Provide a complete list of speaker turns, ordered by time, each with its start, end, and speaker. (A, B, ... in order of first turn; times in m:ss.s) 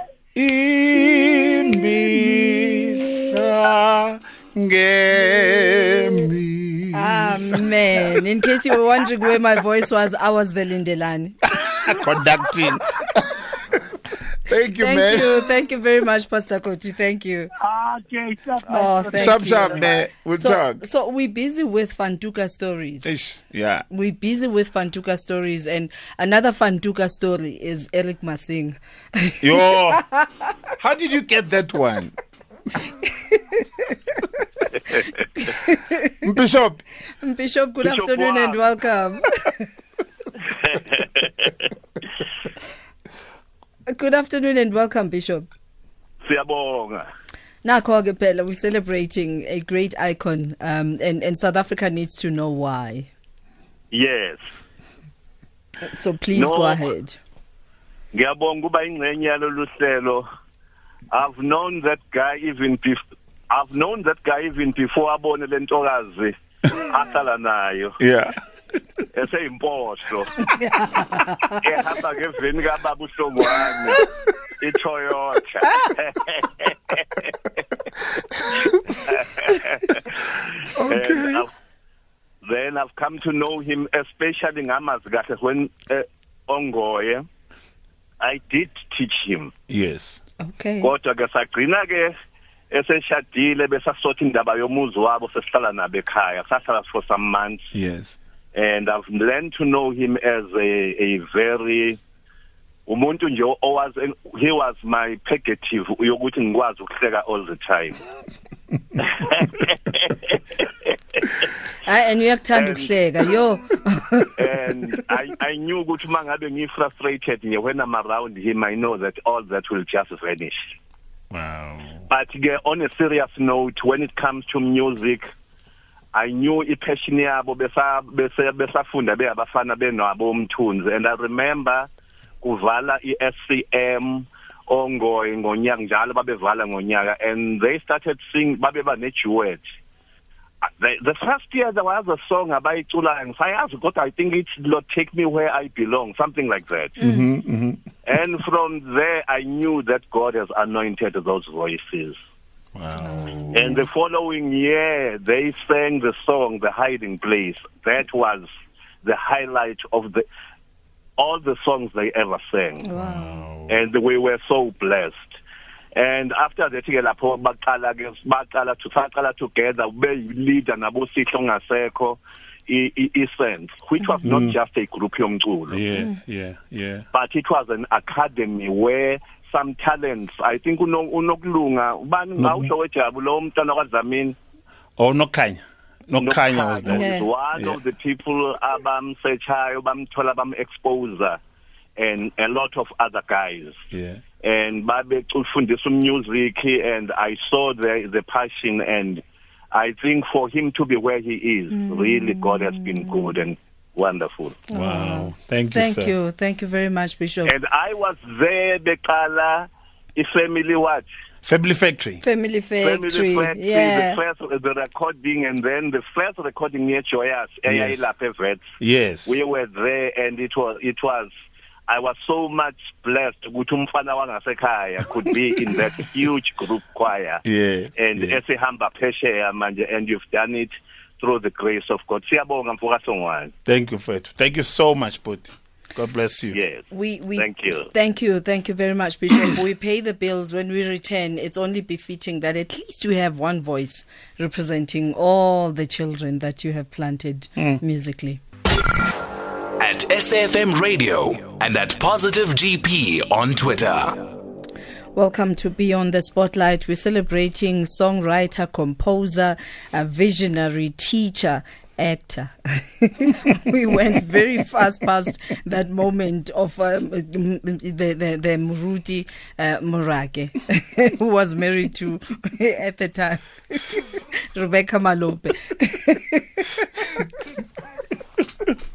0:00.4-0:08.2 A
0:01.1-0:02.2 B
0:06.9-0:12.0 C
0:11.8-0:13.8 A
0:14.4-0:15.3 A
0:14.8-0:17.5 C
0:17.6-0:20.0 B
0:18.7-0:23.2 C
0:19.1-0:20.8 A
0:23.0-0:23.9 A
0:23.9-0:30.3 C
0:29.4-0:30.0 A
0:30.8-0:32.2 A
0:33.0-0:34.6 C
0:35.4-0:36.1 C
0:36.2-0:36.8 A
0:37.2-0:39.7 C
0:37.8-0:38.6 D
0:40.6-0:41.5 D
0:43.9-0:45.5 C
0:46.2-0:47.1 D
0:47.6-0:53.1 C
0:53.9-0:54.4 D
0:55.8-0:57.2 C
0:56.3-0:56.8 D
0:58.1-1:00.3 D
1:01.1-1:08.0 D
1:08.0-1:08.4 A
1:09.1-1:10.3 D
1:10.6-1:11.6 C
1:11.6-1:14.0 D
1:14.6-1:17.6 D
1:19.0-1:21.5 D
1:20.8-1:21.4 A
1:22.4-1:27.3 D
1:28.2-1:29.5 D
1:29.7-1:30.2 A
1:30.4-1:30.9 C
1:30.8-1:32.2 D
1:32.7-1:37.7 D
1:37.7-1:38.2 A
1:38.5-1:42.0 D
1:42.9-1:48.0 D
1:49.0-1:51.5 D
1:51.8-1:54.4 C
1:52.5-1:52.9 D
1:54.4-2:00.7 D
2:01.3-2:02.0 A
2:02.1-2:05.3 D
2:06.1-2:11.9 D
2:12.4-2:19.6 D
2:20.6-2:27.0 D
2:27.0-2:27.3 C
2:27.0-2:27.8 A
2:28.0-2:32.2 D
2:32.8-2:33.8 A
2:33.0-2:33.8 C
2:33.5-2:38.5 D
2:39.0-2:40.2 D
2:41.2-2:42.9 D
2:42.8-2:43.5 C
2:43.0-2:43.8 A
2:43.7-2:45.4 D
2:46.0-2:55.8 D
2:54.2-2:54.6 A
2:55.7-2:57.1 A
2:57.1-3:04.4 D
3:02.4-3:02.7 A
3:05.0-3:07.8 A
3:06.2-3:11.4 D
3:06.9-3:07.3 C
3:12.0-3:13.8 D
3:13.9-3:14.2 A
3:14.4-3:24.6 D
3:21.7-3:23.4 C
3:24.7-3:27.6 C
3:24.7-3:26.1 A
3:27.4-3:31.0 D
3:31.4-3:32.2 A
3:32.2-3:34.2 C
3:32.8-3:38.6 D
3:37.7-3:38.1 A
3:38.8-3:39.4 A
3:39.3-3:41.3 D
3:41.9-3:47.4 D
3:47.4-3:48.4 A
3:48.0-3:53.5 D
3:53.6-3:56.6 A
3:56.5-3:57.9 D
3:56.9-4:08.4 C
4:09.8-4:14.2 E
4:15.2-4:37.2 C